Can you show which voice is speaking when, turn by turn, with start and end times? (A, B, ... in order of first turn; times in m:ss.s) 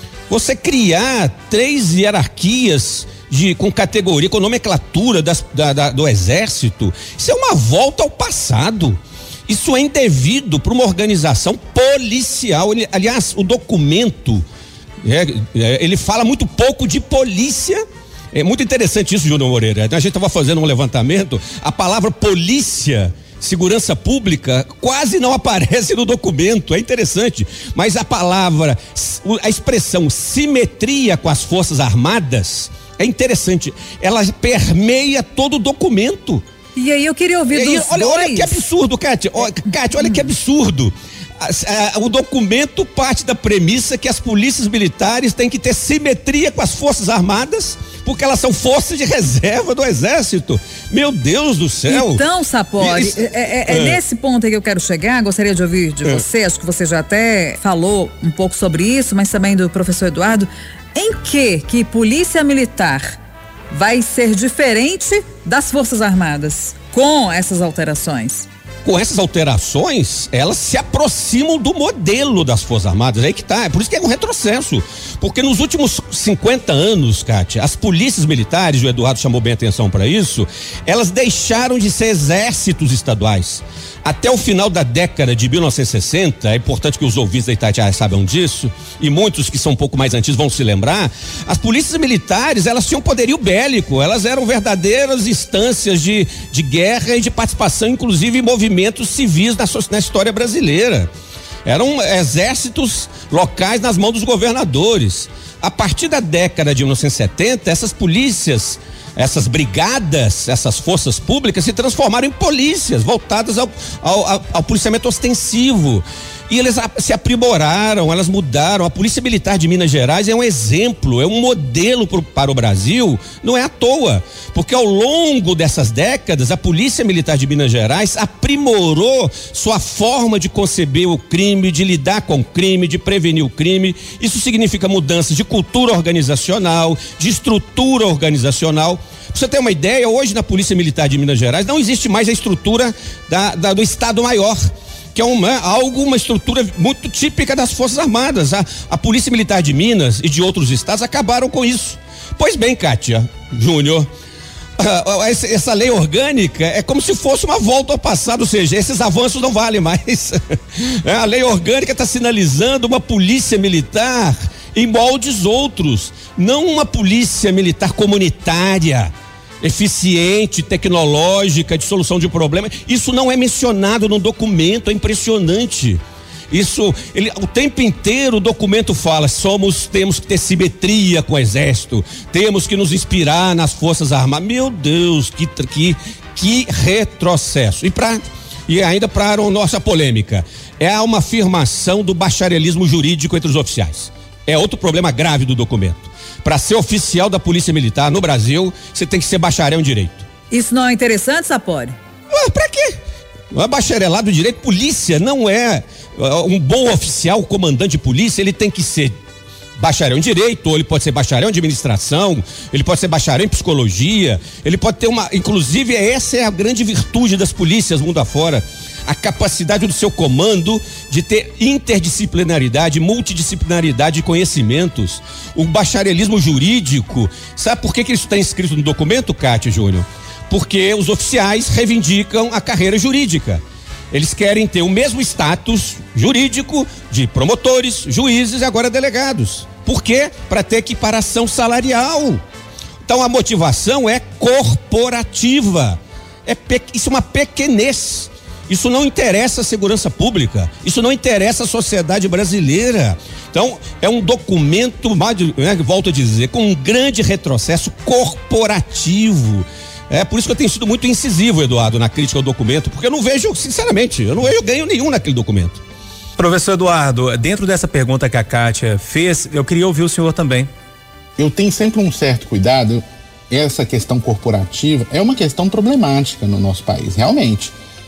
0:00.3-0:14.4 A
0:15.0-0:17.8 A
0:18.3-0:36.4 A
0:36.8-0:38.6 B
0:37.5-0:52.2 A
0:40.0-0:40.3 B
0:51.9-1:03.2 B
0:52.8-0:54.0 A
1:03.7-1:08.5 B
1:08.8-1:41.1 A
1:41.6-2:24.6 A
2:25.1-2:34.1 A
2:34.8-3:20.2 A
3:20.5-3:21.9 B
3:22.3-3:23.0 A
3:23.5-3:29.1 A
3:29.8-4:02.4 A
4:03.0-4:25.8 A
4:26.4-4:30.7 C
4:31.4-4:37.7 D